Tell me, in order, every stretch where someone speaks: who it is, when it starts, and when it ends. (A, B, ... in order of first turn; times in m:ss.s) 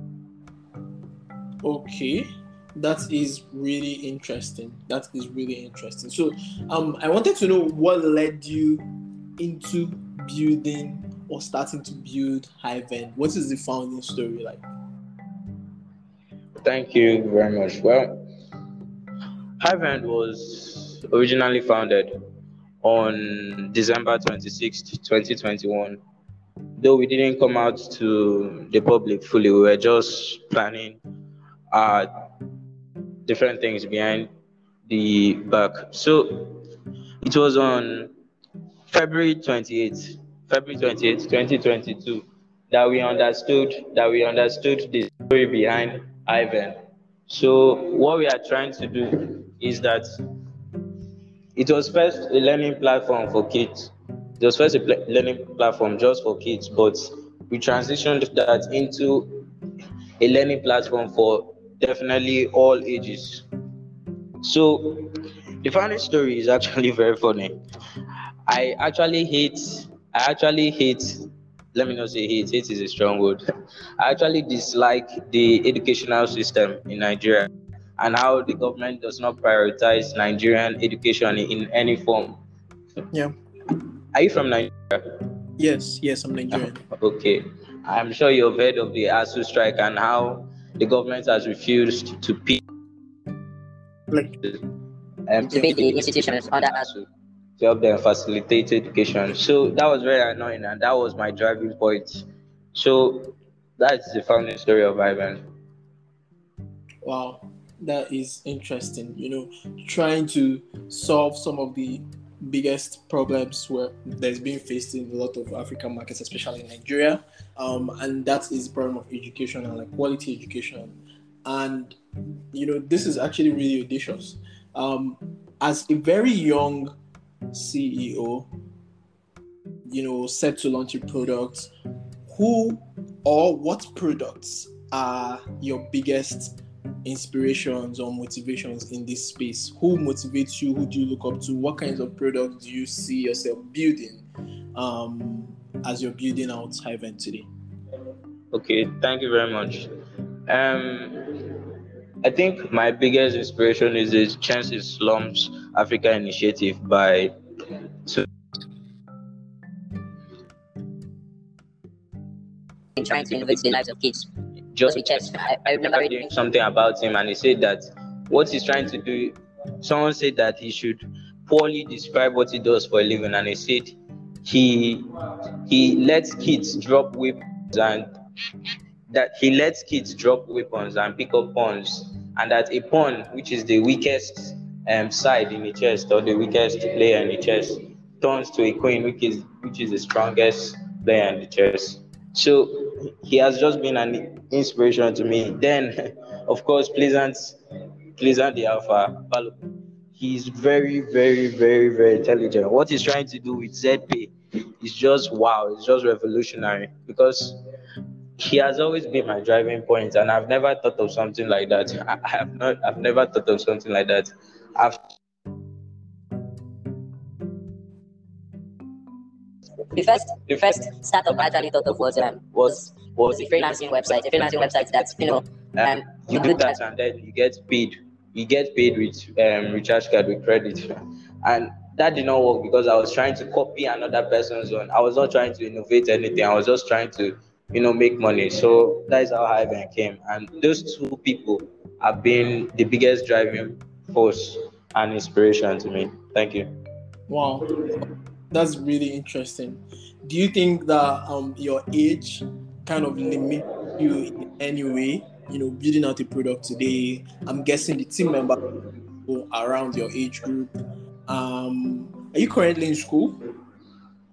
0:01.6-0:08.8 A
0:09.4-0:14.6 A
0:16.6-0:18.1 B
0:19.6-0:22.1 B
0:22.8-0:26.0 B
0:26.8-0:31.0 B
0:31.7-0:32.1 B
0:33.2-0:34.3 B
0:34.9-0:36.6 B
0:37.2-0:38.1 B
0:38.9-0:46.8 B
0:47.3-0:50.0 B
0:51.6-0:59.4 B
1:00.2-1:03.4 B
1:04.4-1:05.1 B
1:05.6-1:07.5 B
1:08.5-1:13.4 B
1:14.0-1:22.4 B
1:24.1-1:25.0 B
1:25.6-1:26.8 A
1:26.6-1:32.6 B
1:35.3-1:37.0 B
1:35.4-1:36.8 C
1:37.6-1:45.4 B
1:47.0-2:02.0 A
2:02.5-2:06.9 A
2:07.5-2:08.5 A
2:09.9-2:11.7 A
2:12.3-2:24.2 A
2:24.7-2:27.5 A
2:28.5-2:29.9 B
2:30.5-2:31.4 B
2:32.2-2:37.3 B
2:43.0-2:44.3 C
2:43.0-2:43.8 B
2:44.7-2:55.0 B
2:44.9-2:46.3 C
2:55.6-2:58.0 B
2:59.1-3:15.9 B
3:16.5-3:17.6 B
3:18.2-3:19.5 B
3:20.1-3:27.6 B
3:28.4-3:35.0 B
3:39.9-3:46.8 C
3:40.4-3:50.8 B
3:51.4-4:06.7 B
4:07.3-4:07.7 A
4:08.5-4:18.6 A
4:19.2-4:20.7 A
4:21.3-4:23.4 A